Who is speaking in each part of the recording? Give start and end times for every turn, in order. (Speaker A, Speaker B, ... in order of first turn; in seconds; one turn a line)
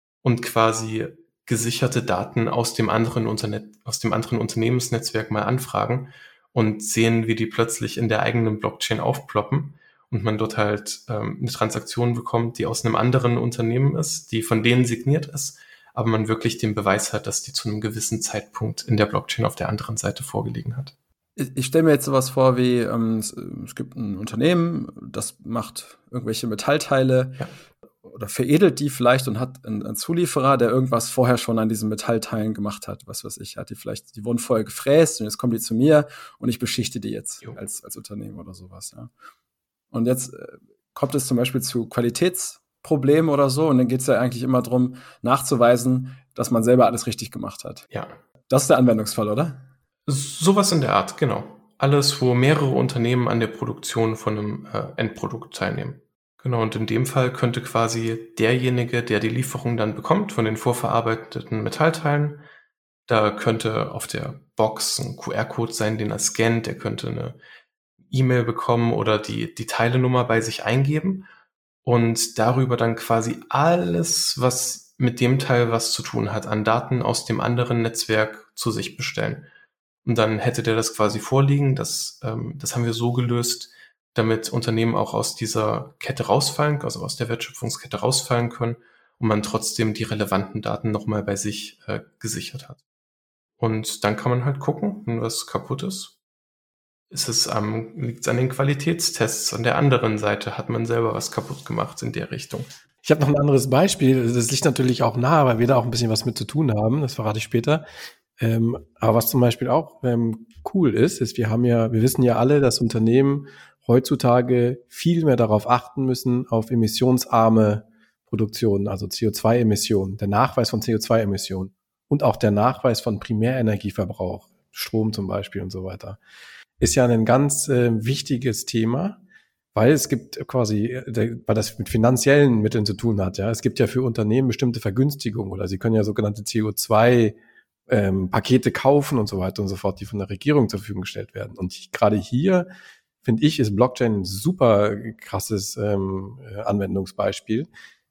Speaker A: 0.2-20.9
Speaker B: 21.4-27.4
Speaker B: 28.0-39.1
Speaker B: 39.9-47.9
Speaker A: 47.9-48.1
Speaker B: 48.5-49.6
Speaker A: 50.1-62.4
Speaker A: 63.1-67.4
Speaker A: 68.1-71.3
Speaker A: 71.8-79.5
Speaker A: 80.0-92.8
Speaker A: 93.6-96.2
Speaker A: 97.1-102.7
Speaker C: 103.0-107.8
Speaker C: 108.4-126.2
Speaker C: 126.8-129.2
Speaker C: 129.7-137.4
Speaker C: 137.9-142.7
Speaker C: 143.2-147.7